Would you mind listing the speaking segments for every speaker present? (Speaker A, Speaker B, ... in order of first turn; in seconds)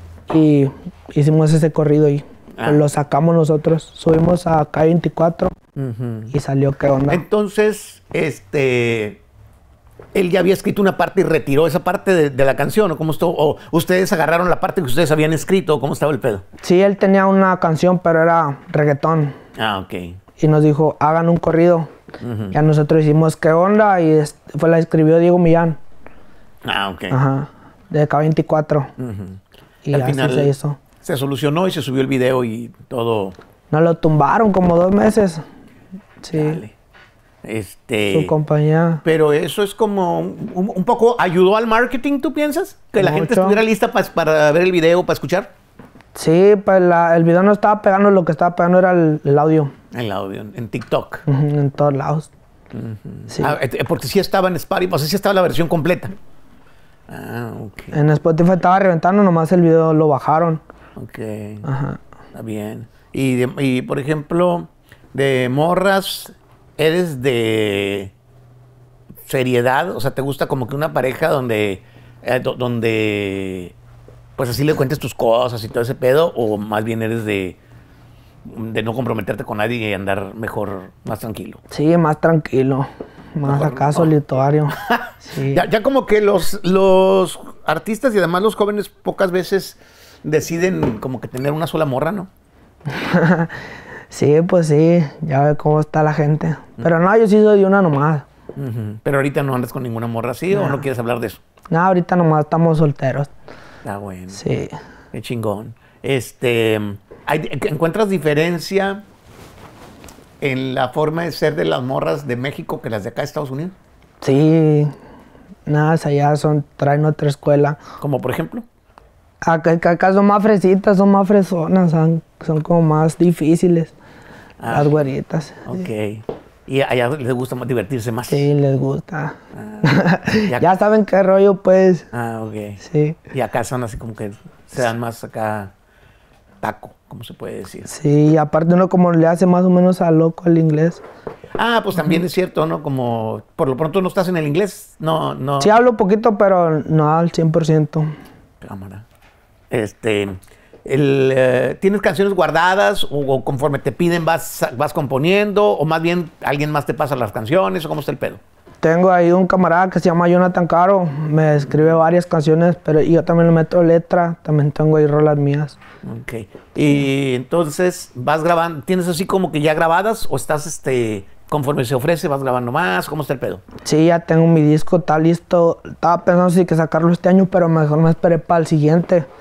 Speaker A: 0.3-5.5, 6.3-7.2, 16.6-19.4, 20.4-21.9, 22.5-25.8, 27.1-28.9, 29.9-30.8, 33.7-35.4, 36.2-36.6, 38.1-39.0, 43.0-43.6, 46.1-49.7, 51.3-52.3, 53.3-53.6, 57.9-60.6, 61.6-62.0, 81.7-85.6, 92.9-93.5, 94.1-98.2, 100.5-100.8, 101.7-103.3, 104.3-104.7, 114.2-114.9, 115.7-117.8, 119.4-123.9, 124.7-125.7, 128.3-132.1, 132.8-133.2, 137.9-141.0, 145.6-148.1, 158.8-165.8, 173.8-179.2
Speaker B: 2.5-2.8, 5.8-6.3, 7.1-9.2, 10.1-16.4, 19.6-20.2, 22.2-22.6, 26.6-27.2, 29.0-29.4, 29.9-33.4, 36.3-36.7, 37.4-38.3, 39.0-45.5, 49.9-51.2, 52.7-56.1, 57.1-58.0, 61.0-61.7, 62.3-68.1, 69.3-73.7, 74.4-77.6, 78.5-81.6, 83.4-84.1, 84.7-92.3, 98.5-101.4, 103.8-104.4, 105.1-109.0, 110.4-113.7, 118.0-118.6, 124.6-125.0, 125.7-128.5, 129.5-130.7, 132.1-135.7, 136.6-137.9, 141.6-145.7, 148.6-149.1, 149.7-158.4, 166.0-173.6